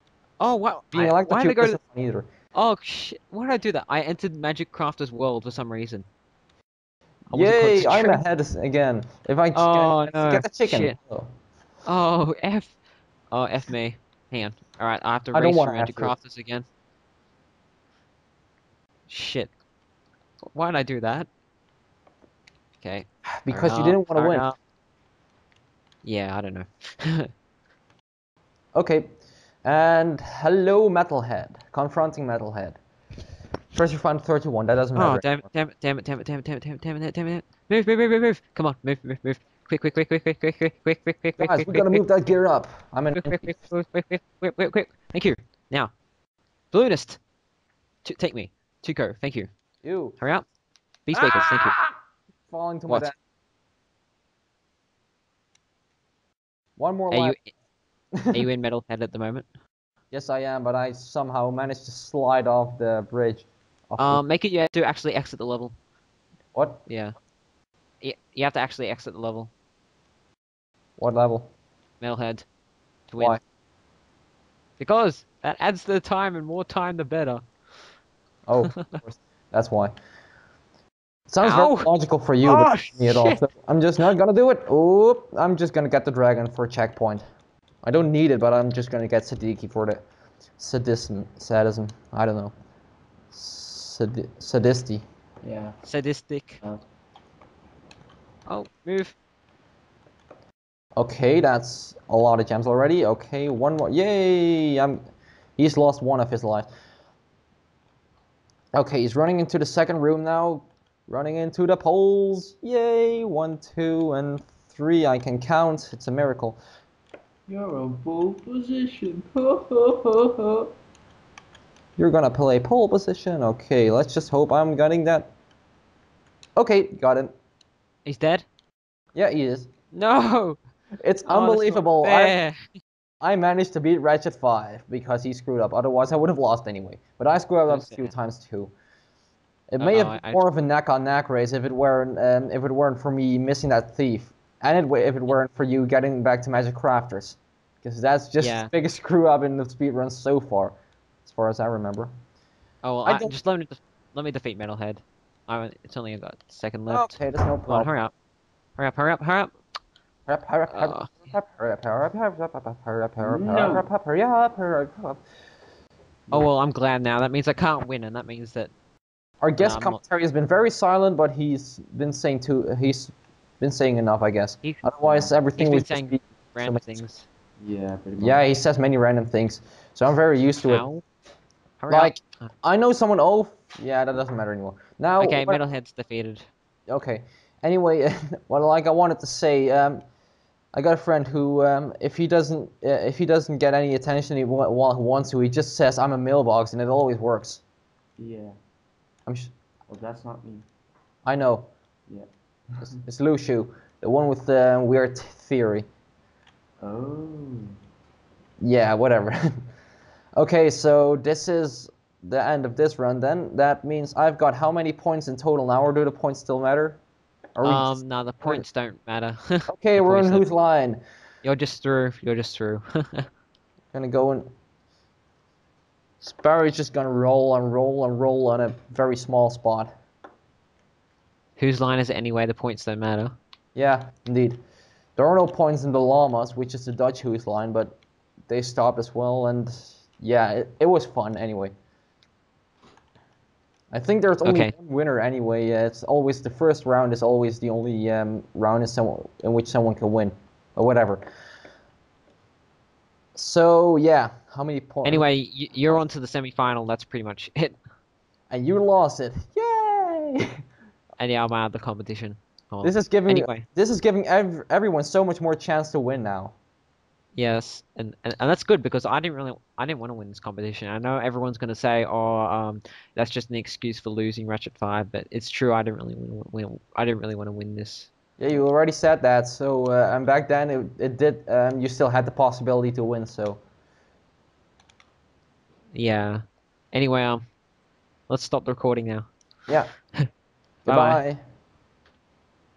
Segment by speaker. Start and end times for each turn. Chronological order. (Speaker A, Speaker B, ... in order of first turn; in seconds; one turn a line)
Speaker A: 0.4-1.8
Speaker B: 0.9-2.2
Speaker A: 2.5-6.1
Speaker A: 7.3-8.2
Speaker B: 7.3-11.3
Speaker A: 9.5-11.0
Speaker A: 11.8-12.7
Speaker A: 13.3-16.7
Speaker B: 15.3-16.1
Speaker A: 19.1-19.5
Speaker A: 20.5-21.3
Speaker A: 22.8-24.6
Speaker B: 23.4-24.5
Speaker A: 26.0-27.3
Speaker B: 28.7-29.1
Speaker B: 29.6-32.8
Speaker B: 33.7-35.4
Speaker A: 34.9-42.0
Speaker B: 41.4-43.5
Speaker A: 43.1-45.9
Speaker A: 46.7-47.2
Speaker A: 48.0-49.5
Speaker B: 49.8-50.2
Speaker A: 50.2-50.5
Speaker A: 51.1-51.8
Speaker B: 51.1-51.9
Speaker B: 52.5-53.1
Speaker A: 52.9-53.1
Speaker B: 56.8-57.4
Speaker A: 57.1-57.5
Speaker B: 58.2-58.4
Speaker A: 58.3-59.5
Speaker B: 60.1-64.2
Speaker A: 64.0-65.7
Speaker B: 66.5-66.8
Speaker A: 66.9-67.1
Speaker A: 68.0-69.5
Speaker B: 71.0-71.5
Speaker A: 72.0-72.5
Speaker A: 73.1-73.4
Speaker A: 74.8-77.4
Speaker B: 78.5-79.9
Speaker B: 81.3-87.2
Speaker A: 81.4-81.9
Speaker A: 82.4-83.4
Speaker B: 87.8-90.0
Speaker B: 90.6-92.5
Speaker B: 93.3-95.0
Speaker C: 95.4-95.8
Speaker A: 95.8-96.6
Speaker A: 98.5-99.1
Speaker B: 101.0-105.0
Speaker B: 105.6-106.7
Speaker B: 108.7-116.6
Speaker C: 117.5-120.7
Speaker B: 122.0-125.3
Speaker B: 126.5-127.3
Speaker A: 128.1-128.4
Speaker B: 129.1-129.7
Speaker A: 129.9-130.6
Speaker B: 131.0-132.4
Speaker A: 131.2-132.7
Speaker B: 133.2-138.7
Speaker A: 137.7-138.1
Speaker B: 139.7-150.7
Speaker A: 139.8-140.4
Speaker A: 148.4-148.7
Speaker B: 151.2-152.1
Speaker A: 152.8-158.1
Speaker B: 153.0-153.3
Speaker B: 156.9-157.9
Speaker A: 158.8-159.5
Speaker B: 160.3-165.2
Speaker A: 160.7-161.1
Speaker C: 163.2-163.9
Speaker A: 166.3-168.7
Speaker B: 169.4-177.0
Speaker A: 169.6-170.0
Speaker C: 175.0-175.3
Speaker A: 175.5-177.2
Speaker C: 177.6-178.4
Speaker B: 178.2-180.9
Speaker A: 180.7-181.0
Speaker A: 181.8-182.1
Speaker B: 181.9-185.6
Speaker A: 185.2-186.4
Speaker B: 186.9-190.0
Speaker B: 190.7-197.6
Speaker C: 198.2-198.6
Speaker B: 199.2-199.5
Speaker C: 199.9-200.7
Speaker B: 201.2-201.7
Speaker C: 202.1-203.0
Speaker B: 202.9-205.8
Speaker C: 206.8-207.7
Speaker B: 208.6-209.4
Speaker B: 210.3-217.0
Speaker B: 217.6-218.6
Speaker A: 217.6-220.4
Speaker B: 219.7-221.0
Speaker A: 221.4-223.3
Speaker B: 223.9-224.5
Speaker B: 226.2-229.9
Speaker A: 231.6-233.3
Speaker B: 233.7-234.6
Speaker B: 235.2-238.0
Speaker B: 238.5-241.7
Speaker B: 243.9-251.2
Speaker A: 244.4-244.7
Speaker B: 253.3-255.3
Speaker A: 255.0-257.8
Speaker B: 258.5-260.4
Speaker A: 261.2-263.6
Speaker B: 262.8-266.5
Speaker A: 267.4-278.1
Speaker B: 278.4-283.6
Speaker A: 285.9-287.4
Speaker A: 288.3-289.3
Speaker B: 290.8-291.4
Speaker A: 290.9-291.2